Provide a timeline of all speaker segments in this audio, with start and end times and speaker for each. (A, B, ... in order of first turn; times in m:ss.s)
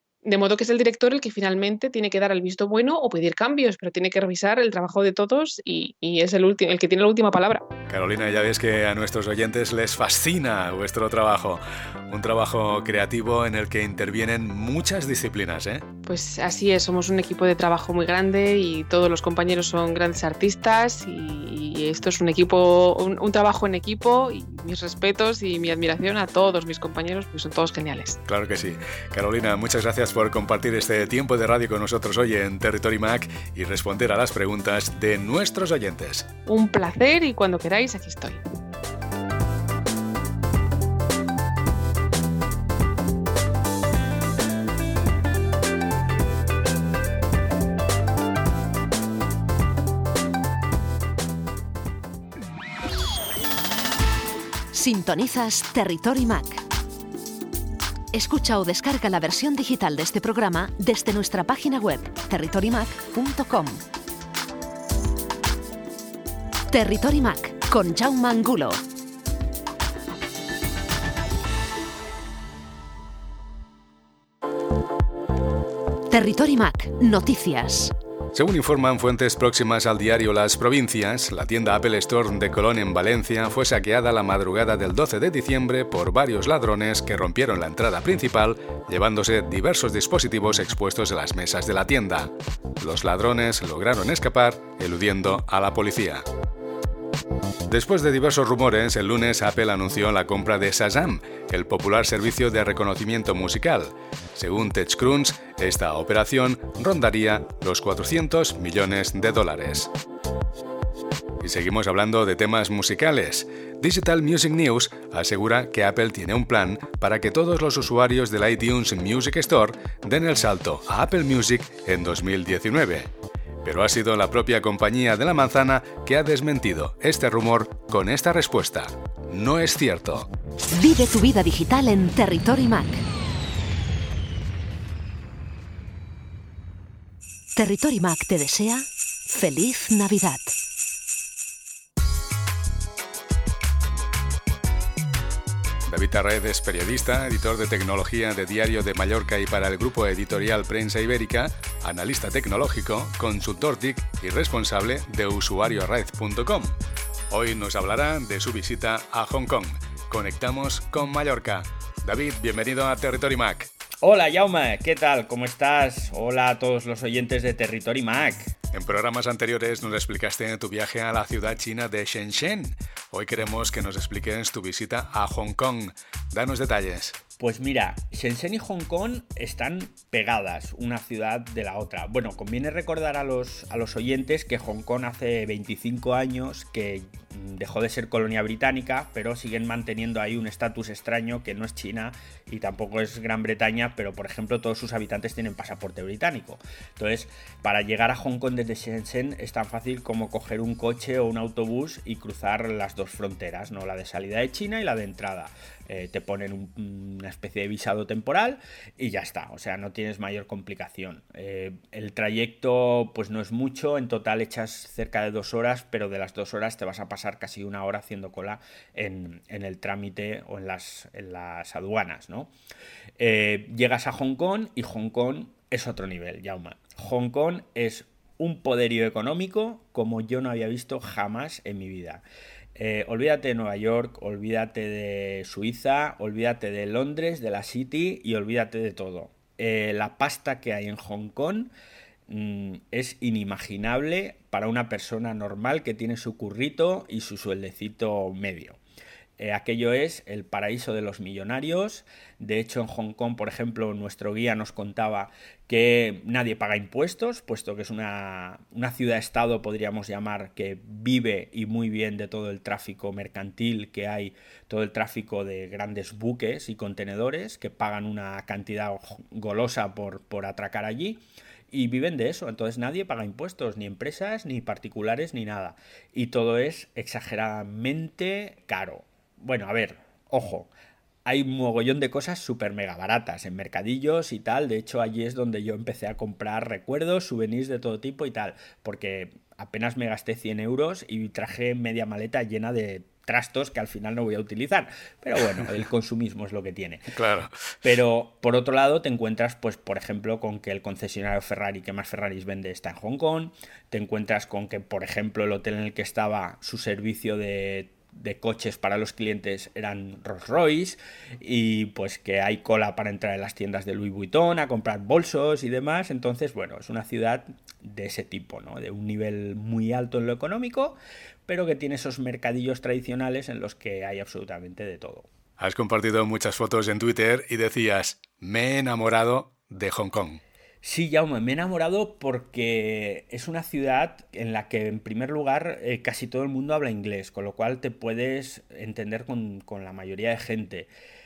0:00.2-0:07.7 A
0:07.9-0:15.8 B
0:16.0-0:28.2 A
0:28.3-0:36.3 B
0:36.4-0:38.4 A
0:54.7-0:56.6 C
0:58.1-1:03.8 C
1:06.7-1:08.8 C
1:16.1-1:17.9 C
1:18.3-1:36.2 B
1:37.7-1:49.9 B
1:51.4-2:03.1 B
2:03.6-2:10.3 B
2:10.7-2:13.0 C
2:17.6-2:20.5 C
2:25.9-2:36.7 B
2:37.3-2:43.7 B
2:44.0-2:48.5 D
2:48.7-2:57.2 B
2:57.4-3:42.5 D
3:43.2-3:52.2 D
3:52.7-4:01.7 D
4:02.3-4:08.8 D
4:09.4-4:40.7 D
4:41.2-4:57.1 D
4:57.1-4:57.5 B
4:57.8-5:25.3 D
5:25.6-5:30.4 B
5:30.8-5:40.9 D